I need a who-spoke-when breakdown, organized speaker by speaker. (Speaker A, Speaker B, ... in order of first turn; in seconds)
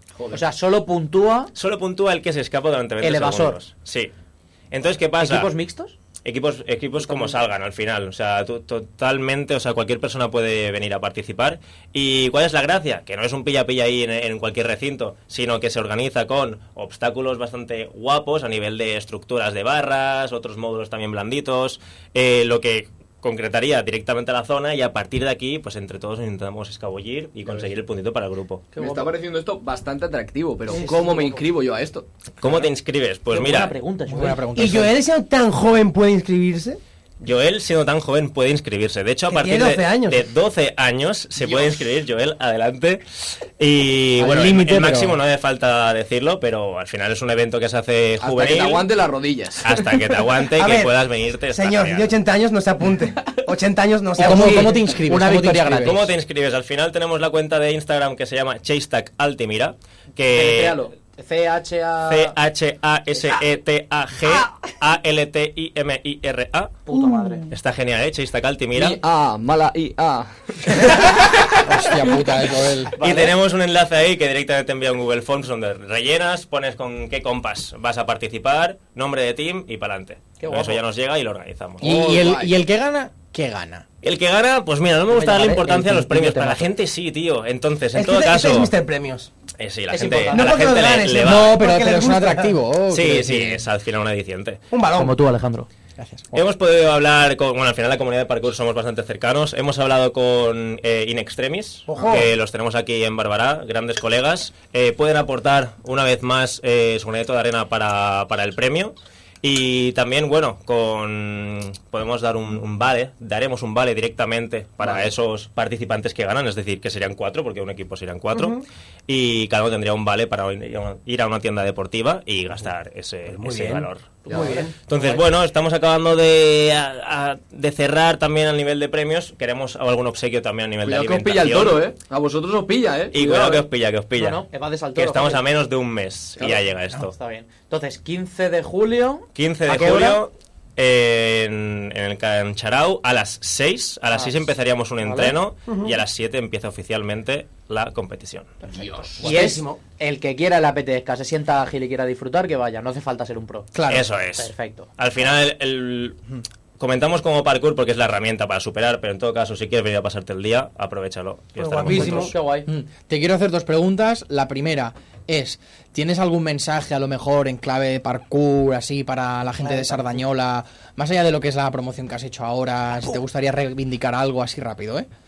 Speaker A: 0.3-1.5, 3.0-3.6, 5.2-6.0, 7.0-7.3, 28.7-29.1, 30.7-31.4, 33.3-34.7, 54.2-56.0, 60.3-62.4, 66.9-67.5, 73.0-73.3, 80.4-80.8, 85.1-86.7, 89.9-90.8, 95.0-95.7, 124.3-125.2, 134.2-135.4, 136.9-139.3, 145.0-145.4, 149.2-153.7, 154.4-154.9, 161.9-162.7
Speaker B: 1.6-4.1, 4.7-5.5, 6.2-28.7, 32.4-33.7, 37.2-43.0, 43.6-48.9, 49.6-52.2, 55.8-60.8, 62.1-66.8, 67.5-69.0, 71.1-71.6, 73.0-82.0, 84.0-88.7, 89.6-91.6, 92.9-94.6, 96.3-124.3, 124.9-131.9, 133.1-134.4, 135.0-137.1, 139.3-148.6, 153.9-156.2, 156.8-162.3
Speaker C: 28.8-32.6, 48.2-50.2, 68.7-71.0, 81.8-82.5, 124.3-124.6, 130.8-133.7, 148.7-149.2
Speaker D: 34.1-35.0, 44.2-45.2, 54.2-56.1, 71.6-73.0, 81.8-83.8, 91.2-93.7, 96.0-96.4, 153.8-154.0, 162.7-175.1
Speaker E: 34.5-36.8, 39.3-40.2, 50.5-50.9, 51.5-54.8, 87.9-89.3, 90.3-92.5, 94.7-95.2, 101.9-102.3, 123.3-124.7, 139.7-140.2, 145.7-145.9, 149.2-149.8, 161.6-162.3